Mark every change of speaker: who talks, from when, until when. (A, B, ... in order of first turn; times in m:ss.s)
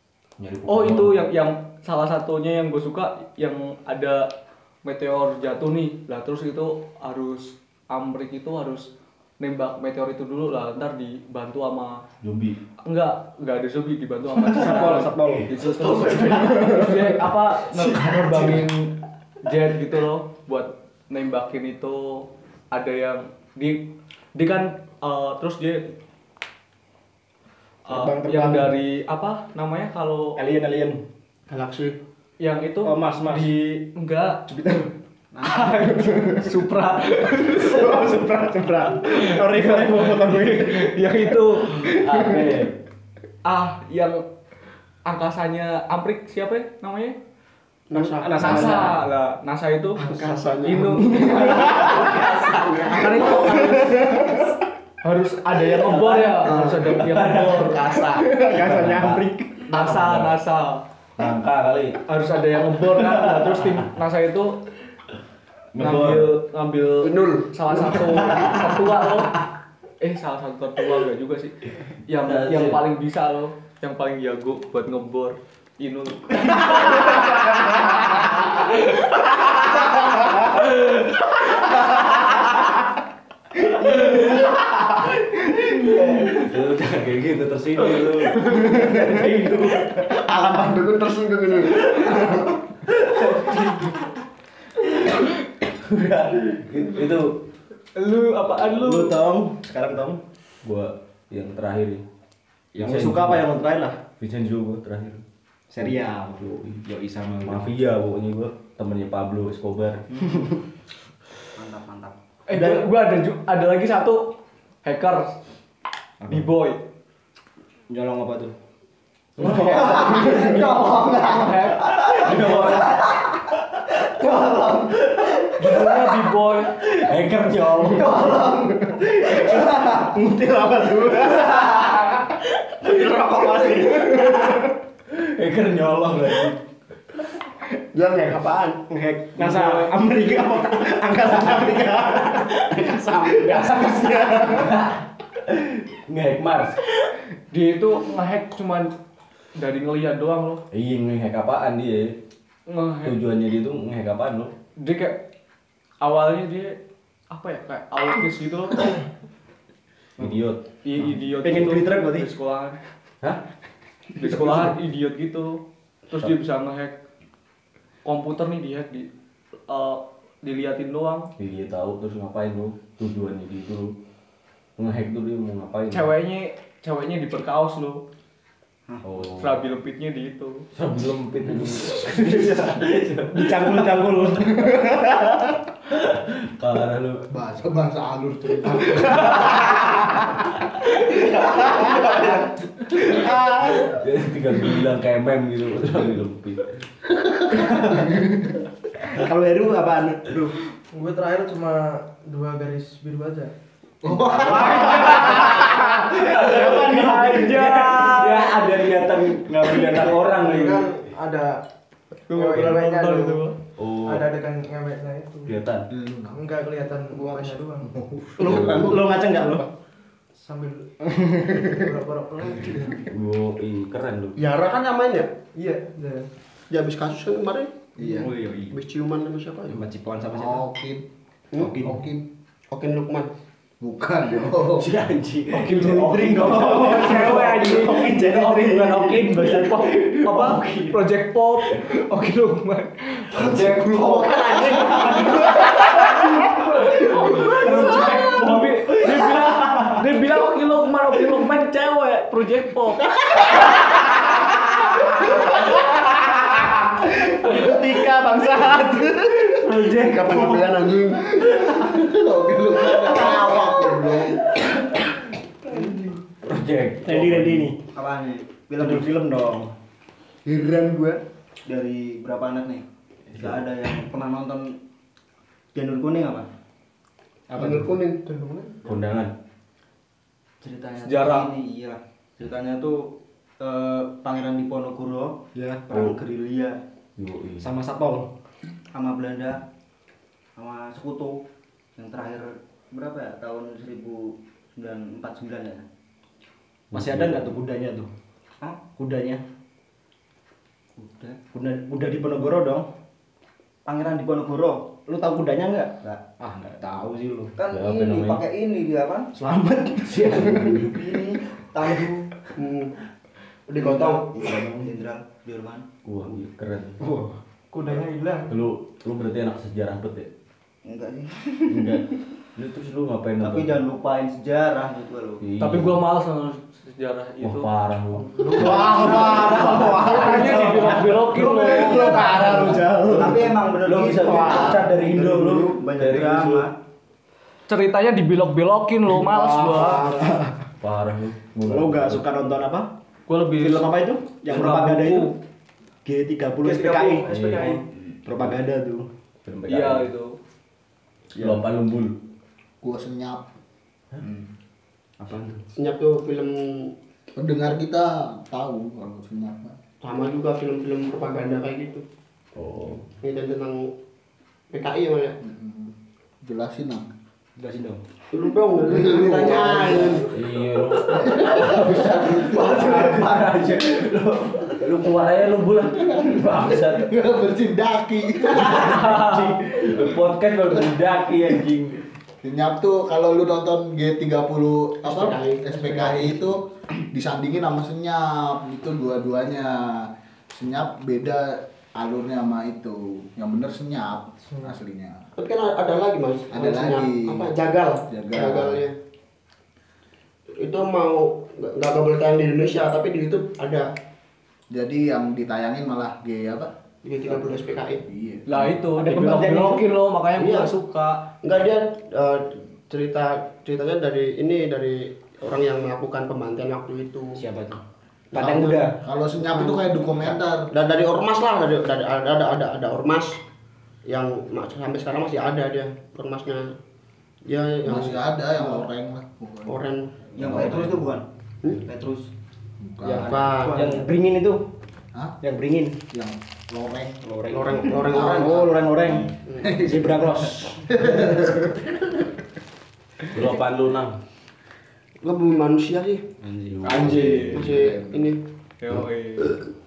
0:00.4-0:01.3 A
0:00.7-0:04.3 B
0:04.8-0:12.0 B
0:12.2-0:12.6 A
0:12.8-0:25.9 B
0:14.5-0:14.8 A
0:14.5-0:15.5 C
0:15.7-0:16.8 A
0:16.5-0:17.1 C
0:27.9-0:28.8 C
0:27.9-0:30.4 B
0:30.3-0:31.0 C
0:31.5-0:32.0 D
0:32.4-0:34.4 B
0:32.8-0:33.8 C
0:34.5-0:34.9 C
0:35.3-0:36.0 E
0:35.4-0:38.0 B
0:36.0-0:36.6 C
0:37.5-0:40.9 C
0:39.0-0:42.3 B
0:41.7-0:42.8 A
0:43.4-0:44.2 B
0:45.0-0:47.2 B
0:47.9-0:48.6 D
0:48.0-0:49.0 C
0:48.4-0:54.4 B
0:50.0-0:53.7 D
0:51.1-0:52.0 C
0:53.8-0:54.5 C
0:55.0-0:58.4 B
0:56.0-0:56.7 C
0:56.8-0:58.0 A
0:58.2-0:59.8 C
0:58.5-1:00.4 A
0:59.7-1:00.8 B
1:01.2-1:02.0 A
1:02.1-1:04.6 B
1:02.8-1:03.8 A
1:05.7-1:06.4 A
1:05.8-1:09.4 B
1:07.0-1:07.5 D
1:10.0-1:21.9 B
1:12.2-1:12.8 A
1:25.9-1:26.4 E
1:26.3-1:29.9 A
1:28.4-1:30.5 C
1:30.1-1:32.6 D
1:33.2-1:33.6 A
1:33.6-1:33.9 B
1:35.7-1:37.4 A
1:37.9-1:39.2 B
1:38.8-1:40.2 C
1:40.6-1:42.0 A
1:42.7-1:44.0 C
1:42.8-1:43.4 A
1:44.2-1:45.2 A
1:45.7-1:47.7 C
1:45.8-1:46.8 A
1:47.4-1:50.1 A
1:50.3-1:50.6 C
1:51.6-1:52.2 E
1:52.5-1:55.4 B
1:52.5-1:52.8 C
1:56.2-1:56.5 C
1:56.3-1:56.8 B
1:57.9-1:58.5 C
1:59.4-2:00.7 C
1:59.4-2:00.8 A
1:59.6-2:05.6 E
2:01.1-2:01.9 B
2:01.8-2:02.9 C
2:02.2-2:02.9 A
2:05.6-2:06.7 B
2:06.9-2:08.2 A
2:07.9-2:09.0 E
2:08.8-2:11.6 C
2:09.6-2:09.8 E
2:11.4-2:14.6 D
2:12.9-2:14.3 C
2:15.1-2:16.6 A
2:17.9-2:18.8 D
2:18.9-2:24.5 C
2:19.6-2:19.9 B
2:21.4-2:24.7 D
2:24.5-2:26.8 A
2:27.5-2:28.9 B
2:29.6-2:30.6 B
2:30.7-2:32.2 A
2:32.7-2:33.2 B
2:33.0-2:34.5 A
2:34.8-2:35.2 B
2:36.0-2:36.8 B
2:37.3-2:39.0 B
2:40.2-2:40.7 A
2:40.8-2:42.8 B
2:41.4-2:42.3 C
2:44.2-2:47.0 B
2:48.0-2:49.1 B
2:49.7-2:51.3 B
2:51.4-2:53.9 A
2:54.8-2:56.1 A
2:55.9-2:58.0 B
2:59.0-2:59.6 A
2:59.4-3:00.7 B
3:00.7-3:04.1 A
3:01.6-3:02.7 C
3:03.3-3:05.6 C
3:05.9-3:07.2 A
3:07.3-3:10.3 F
3:11.6-3:12.0 F
3:13.1-3:16.8 A
3:13.2-3:13.6 C
3:17.1-3:17.7 F
3:17.6-3:18.1 A
3:19.1-3:20.6 C
3:20.9-3:23.5 G
3:24.0-3:25.2 F
3:24.3-3:28.1 C
3:24.4-3:28.6 B
3:26.3-3:30.9 A
3:29.9-3:31.6 G
3:32.3-3:33.6 B
3:32.3-3:33.4 G
3:33.8-3:34.3 A
3:34.0-3:35.6 G
3:35.4-3:35.9 A
3:35.9-3:36.4 F
3:36.3-3:38.0 G
3:38.0-3:38.9 F
3:38.4-3:39.7 C
3:38.4-3:38.9 A
3:38.5-3:39.0 D
3:40.4-3:43.1 G
3:41.2-3:41.6 C
3:43.1-3:44.4 A
3:44.4-3:45.3 D
3:45.5-3:46.3 G
3:46.7-3:49.8 D
3:48.0-3:48.3 F
3:48.2-3:48.7 C
3:49.7-3:50.6 C
3:50.3-3:51.0 F
3:51.6-3:52.0 C
3:51.8-3:52.2 F
3:52.7-3:53.3 D
3:53.8-3:54.9 F
3:54.8-3:57.2 A
3:55.5-4:01.0 C
3:56.7-4:03.5 B
4:03.3-4:05.6 F
4:03.4-4:05.8 A
4:05.4-4:13.2 B
4:07.3-4:09.4 C
4:07.8-4:08.2 F
4:09.5-4:09.9 A
4:17.1-4:21.4 D
4:17.4-4:18.1 C
4:19.6-4:20.6 C
4:21.6-4:24.4 F
4:25.7-4:27.7 A
4:27.0-4:27.8 C
4:27.9-4:29.1 E
4:28.7-4:29.7 C
4:30.5-4:31.0 D
4:31.7-4:34.8 E
4:33.3-4:33.6 A
4:35.7-4:36.5 E
4:37.5-4:38.7 D
4:38.8-4:39.4 A
4:40.6-4:46.8 E
4:41.0-4:41.5 B
4:45.6-4:46.2 C
4:45.9-4:46.2 A
4:47.2-4:47.7 A
4:47.6-4:48.3 C
4:48.9-4:49.6 E
4:50.6-4:51.4 E
4:52.0-4:55.8 E
4:56.9-4:57.5 A
4:56.9-4:58.1 C
4:59.0-4:59.4 C
5:01.0-5:01.4 E
5:01.5-5:02.9 C
5:03.8-5:05.0 E
5:05.0-5:07.6 C
5:07.6-5:09.3 E
5:07.7-5:08.4 A
5:09.3-5:11.1 C
5:10.1-5:10.9 A
5:10.8-5:12.3 E
5:12.6-5:12.9 D
5:13.7-5:16.3 E
5:13.7-5:14.2 D
5:14.4-5:14.9 C
5:16.0-5:17.0 A
5:17.0-5:17.3 C
5:17.7-5:18.6 G
5:18.5-5:20.3 A
5:20.8-5:22.0 E
5:21.7-5:23.8 A
5:23.4-5:25.4 E
5:25.4-5:26.0 A
5:25.6-5:27.7 B
5:27.4-5:28.9 A
5:28.4-5:28.7 F
5:28.5-5:35.8 C
5:28.8-5:30.6 E
5:29.9-5:32.5 B
5:32.2-5:32.5 D
5:33.1-5:36.7 E
5:34.4-5:35.3 D
5:35.9-5:36.7 A
5:37.7-5:40.2 B
5:39.1-5:40.3 D
5:40.8-5:42.2 A
5:41.6-5:42.9 C
5:43.3-5:45.4 B
5:43.5-5:45.3 C
5:46.0-5:47.3 C
5:46.6-5:47.9 B
5:47.3-5:47.8 A
5:48.2-5:49.1 C
5:49.4-5:50.1 A
5:49.7-5:50.4 B
5:51.4-5:51.6 C
5:51.4-5:52.2 A
5:52.8-5:53.4 F
5:54.2-5:54.4 F
5:55.2-5:55.7 C
5:55.8-5:56.9 D
5:57.3-5:59.8 F
6:00.0-6:02.0 D
6:02.6-6:03.1 A
6:03.2-6:03.9 D
6:04.7-6:05.4 D
6:05.4-6:07.1 F
6:07.6-6:08.0 C
6:08.3-6:10.3 D
6:08.8-6:10.2 F
6:10.3-6:17.2 A
6:11.1-6:11.6 F
6:13.0-6:13.2 E
6:15.9-6:19.2 F
6:18.5-6:22.0 A
6:19.1-6:19.4 B
6:22.4-6:35.2 F
6:25.0-6:26.5 D
6:35.4-6:38.9 D
6:36.5-6:37.5 F
6:38.1-6:38.8 F
6:40.6-6:43.8 D
6:44.7-6:48.7 F
6:47.0-6:48.0 D
6:48.4-6:51.2 B
6:49.0-6:49.8 C
6:50.4-6:50.7 D
6:51.4-6:57.4 D
6:57.4-6:57.8 C
6:58.3-7:03.4 D
6:58.3-6:59.0 C
6:59.0-7:00.7 F
7:04.1-7:06.7 D
7:07.4-7:08.9 D
7:07.8-7:09.7 F
7:09.7-7:10.1 D
7:10.3-7:12.3 E
7:10.4-7:11.0 F
7:12.8-7:13.3 F
7:13.0-7:13.8 D
7:13.0-7:14.7 C
7:13.2-7:14.1 E
7:15.4-7:16.0 C
7:16.1-7:17.2 F
7:17.2-7:20.9 C
7:17.5-7:18.8 D
7:17.9-7:18.4 F
7:19.4-7:19.7 D
7:19.6-7:22.2 F
7:23.3-7:24.2 A
7:25.2-7:26.2 D
7:26.4-7:26.9 E
7:26.8-7:27.7 A
7:26.8-7:27.7 B
7:27.4-7:28.2 F
7:27.5-7:28.4 D
7:28.8-7:29.6 B